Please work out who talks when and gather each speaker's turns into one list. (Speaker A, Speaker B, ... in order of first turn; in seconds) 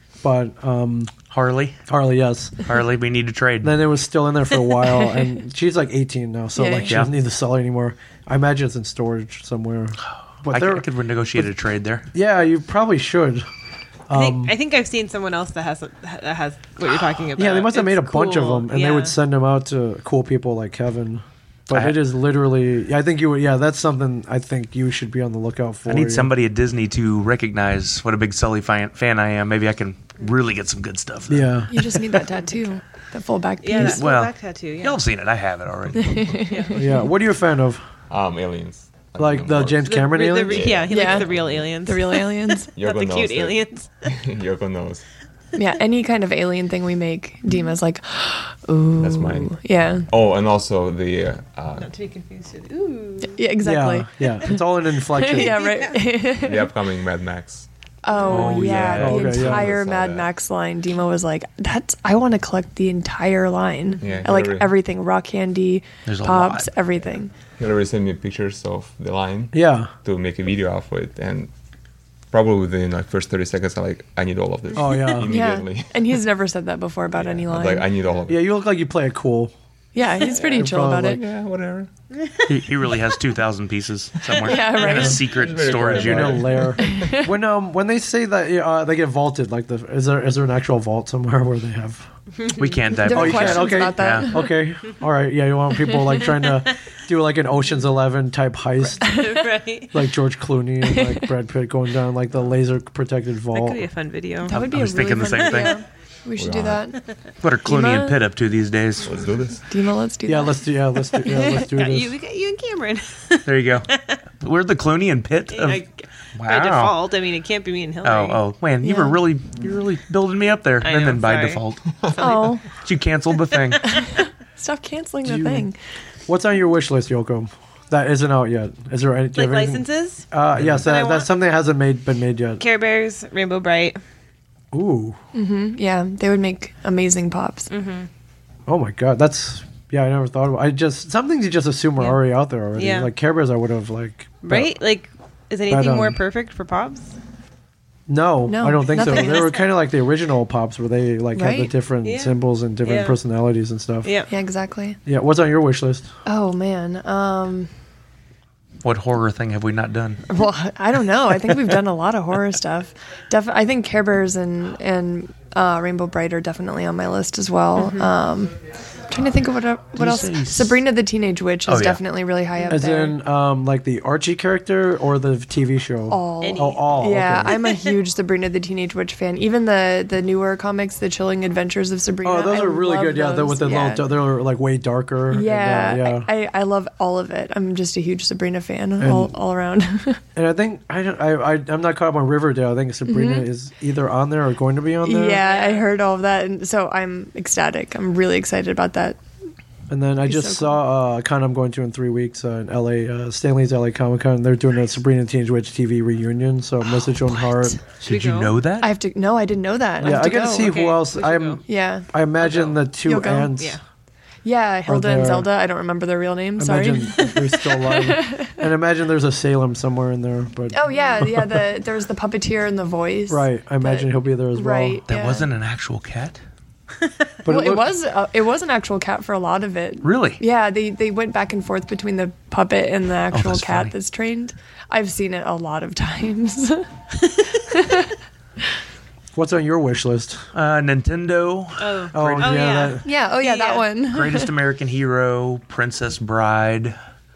Speaker A: 0.2-1.1, 1.9-2.6, 3.6-10.9, 12.1-13.5, 14.1-14.6, 17.4-26.3, 31.3-31.9, 36.7-37.9, 39.2-40.8, 53.6-55.6, 59.0-59.7, 69.5-69.9, 74.7-75.3, 78.3-79.5, 80.4-81.2, 85.6-92.1, 93.1-99.2, 99.9-103.8, 110.3-112.2, 125.2-125.7, 126.3-132.6, 134.7-135.2, 138.7-144.8, 145.7-146.2, 148.1-154.1, 155.1-156.1, 172.7-177.5, 182.2-186.3, 189.0-189.3, 190.3-195.4, 199.9-207.8, 210.0-213.8, 214.9-215.5, 216.6-221.7, 223.3-225.0, 227.4-227.9, 239.3-240.5, 242.1-243.1
Speaker B: 1.3-1.8, 2.6-3.8, 10.5-12.1, 21.7-22.0, 25.9-31.9, 33.8-36.5, 58.3-59.5, 66.1-66.7, 82.5-86.6, 92.6-94.3, 104.5-105.8, 107.4-109.1, 113.5-113.9, 114.4-115.8, 116.4-117.0, 118.0-122.0, 122.7-124.0, 158.8-160.2, 170.0-170.8, 171.7-172.0, 208.0-208.9, 225.1-226.4, 230.0-230.4, 233.3-233.9, 240.5-242.9, 244.1-247.0
Speaker C: 6.6-7.0, 31.7-34.0, 36.0-36.8, 40.9-42.7, 45.5-50.1, 53.2-54.6, 55.1-56.7, 58.0-67.3, 75.3-77.9, 79.9-81.2, 84.4-85.2, 86.8-87.3, 93.0-94.5, 99.0-99.4, 100.9-101.2, 104.4-107.0, 107.7-108.2, 109.7-110.7, 111.2-111.6, 118.8-119.2, 122.2-122.7, 123.9-125.8, 135.3-137.7, 148.5-149.6, 151.3-151.7, 154.3-155.0, 156.3-157.7, 160.3-168.6, 169.1-173.2, 176.1-184.1, 185.3-190.2, 193.1-193.5, 195.0-199.2, 200.2-200.8, 208.8-210.8, 211.7-212.1, 213.0-213.5, 214.4-218.6, 220.7-225.5, 227.5-236.9, 237.5-238.1, 243.0-244.5
Speaker D: 14.1-19.1, 33.6-35.0, 36.5-36.9, 39.9-44.1, 51.8-53.4, 55.3-56.1, 58.2-58.7, 63.9-64.3, 82.2-82.9, 84.5-85.2, 92.4-92.8, 96.2-96.5, 99.1-100.0, 103.5-104.6, 105.2-105.8, 111.2-114.2, 115.5-118.4, 120.8-122.5, 129.3-131.3, 132.6-134.0, 137.7-138.1, 142.8-143.1, 144.4-147.1, 148.9-149.6, 152.0-153.2, 154.0-154.3, 167.8-168.1, 176.4-177.9, 195.3-195.8, 208.0-208.6, 210.0-211.6, 212.4-212.8, 241.8-243.9
Speaker E: 38.1-41.8, 42.8-45.0, 49.0-51.9, 56.3-57.7, 58.6-60.3, 64.0-64.7, 67.6-71.5, 72.3-76.1, 77.2-78.4, 81.1-81.9, 84.8-87.2, 106.4-106.8, 109.0-109.6